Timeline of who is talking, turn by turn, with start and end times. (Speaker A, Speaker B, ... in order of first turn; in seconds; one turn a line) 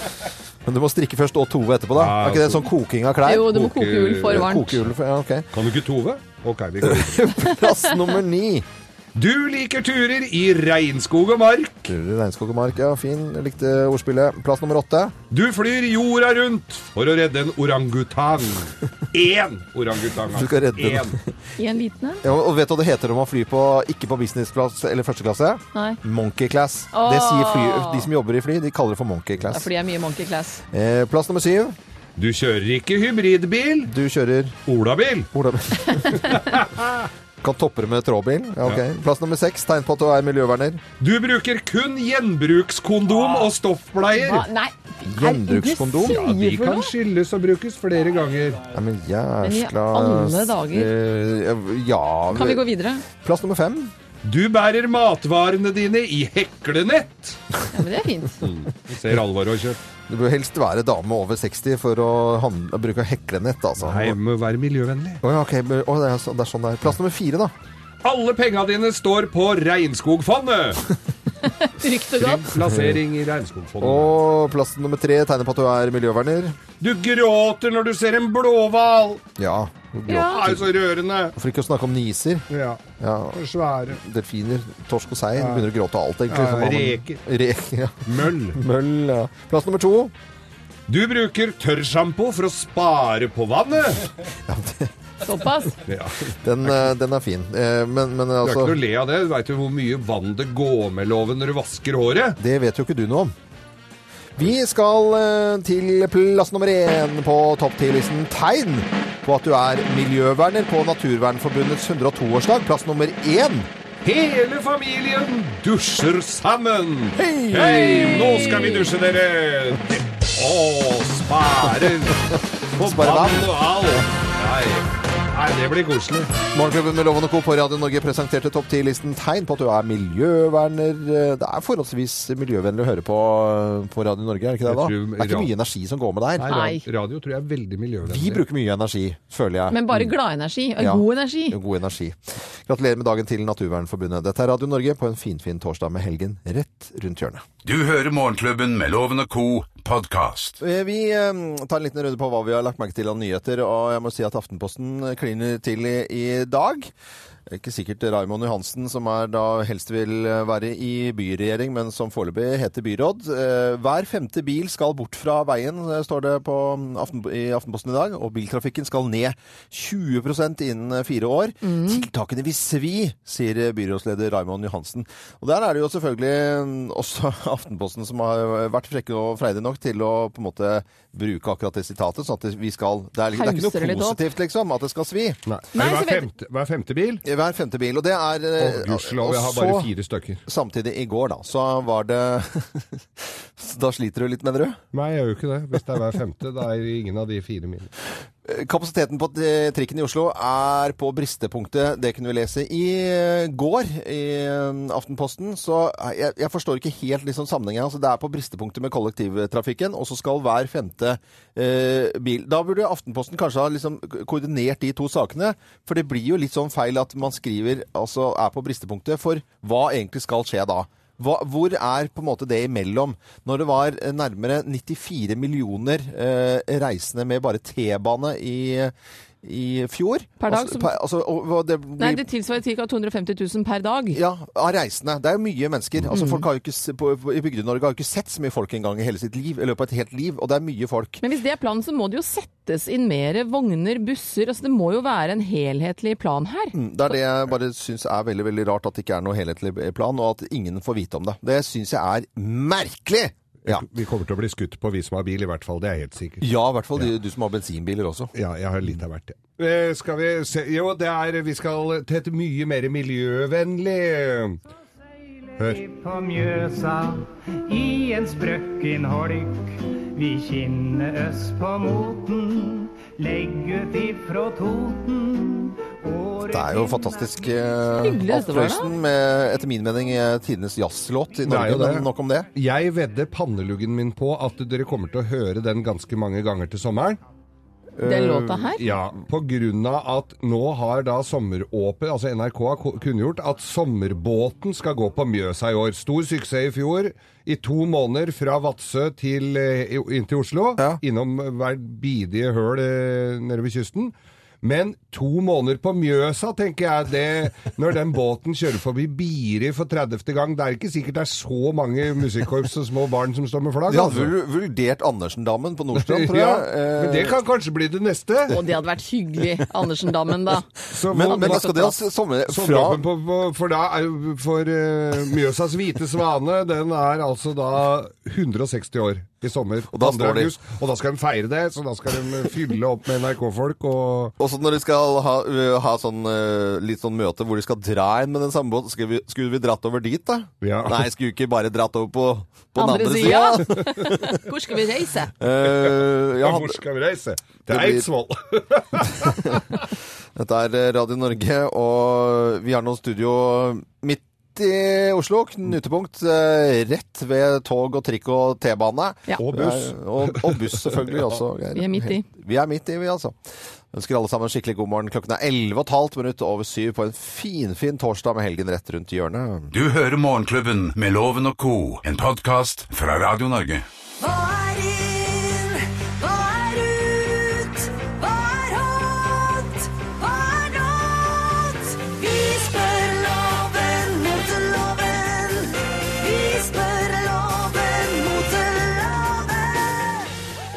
Speaker A: 0.6-3.5
Speaker B: 1.9-2.7
Speaker C: 3.2-4.8
Speaker B: 3.4-4.5
Speaker A: 4.3-5.5
Speaker B: 5.5-7.2
Speaker A: 6.8-8.7
Speaker B: 9.2-11.8
Speaker A: 11.8-15.2
Speaker B: 15.3-21.1
Speaker A: 20.3-21.2
Speaker C: 21.6-22.2
Speaker A: 22.2-29.7
Speaker C: 25.7-26.0
Speaker C: 26.9-28.1
Speaker C: 29.5-30.6
Speaker A: 30.7-31.8
Speaker B: 32.2-33.9
Speaker A: 33.8-34.6
Speaker B: 34.6-35.3
Speaker A: 35.3-36.3
Speaker B: 36.1-37.1
Speaker A: 37.4-40.8
Speaker B: 41.0-44.5
Speaker C: 44.1-46.9
Speaker A: 45.0-46.2
Speaker B: 46.0-48.6
Speaker A: 48.7-53.9
Speaker C: 49.4-50.9
Speaker C: 52.3-53.0
Speaker B: 54.2-57.4
Speaker C: 57.7-58.4
Speaker B: 58.4-59.8
Speaker A: 60.1-64.2
Speaker B: 63.8-65.2
Speaker A: 65.2-67.5
Speaker B: 68.0-70.8
Speaker C: 71.6-72.5
Speaker B: 72.2-74.1
Speaker A: 72.7-73.0
Speaker A: 73.8-76.5
Speaker B: 76.8-79.2
Speaker A: 79.4-79.7
Speaker B: 79.9-81.3
Speaker C: 80.1-80.4
Speaker A: 81.3-82.5
Speaker B: 82.5-82.8
Speaker A: 83.0-90.1
Speaker B: 83.3-84.0
Speaker B: 85.4-85.7
Speaker B: 86.3-87.2
Speaker B: 88.1-88.6
Speaker B: 90.9-94.1
Speaker A: 94.5-94.9
Speaker C: 95.2-95.8
Speaker B: 95.9-96.8
Speaker A: 96.4-98.8
Speaker B: 98.4-102.4
Speaker A: 102.4-103.3
Speaker A: 104.4-113.7
Speaker B: 114.0-126.3
Speaker A: 117.1-118.8
Speaker A: 122.8-123.5
Speaker A: 126.5-136.6
Speaker B: 134.7-135.5
Speaker B: 136.4-138.4
Speaker C: 136.5-136.8
Speaker A: 138.0-140.1
Speaker C: 139.7-141.6
Speaker A: 140.8-147.4
Speaker D: 147.6-150.6
Speaker A: 150.6-156.9
Speaker A: 157.5-185.4
Speaker C: 171.6-172.1
Speaker C: 183.3-184.2
Speaker B: 185.4-187.2
Speaker C: 185.7-186.3
Speaker A: 187.2-189.9
Speaker B: 188.6-190.4
Speaker A: 190.5-194.8
Speaker B: 194.9-197.9
Speaker A: 198.4-232.2
Speaker C: 230.4-230.9
Speaker C: 232.0-234.2
Speaker A: 234.1-241.2
Speaker C: 236.1-236.4
Speaker C: 241.2-246.7
Speaker A: 246.7-253.8
Speaker B: 253.7-256.4
Speaker A: 256.4-258.3
Speaker B: 258.3-264.6
Speaker E: 265.6-278.9
Speaker A: 276.5-282.5
Speaker C: 278.0-278.9
Speaker B: 281.4-287.2
Speaker A: 288.0-288.7
Speaker C: 288.0-288.8
Speaker B: 288.8-314.3
Speaker A: 313.9-317.4
Speaker B: 315.9-318.6
Speaker C: 318.5-320.7
Speaker B: 320.9-321.7
Speaker A: 321.1-323.0
Speaker C: 321.2-321.9
Speaker B: 322.5-334.3
Speaker A: 329.9-330.5
Speaker A: 334.4-344.4
Speaker B: 340.6-341.0
Speaker C: 342.8-345.3
Speaker A: 345.4-346.8
Speaker B: 345.6-349.8
Speaker A: 347.7-348.1
Speaker A: 349.2-349.6
Speaker A: 350.3-363.4
Speaker B: 359.4-361.2
Speaker C: 361.7-362.2
Speaker A: 363.9-369.7
Speaker D: 369.7-373.8
Speaker F: 374.2-390.1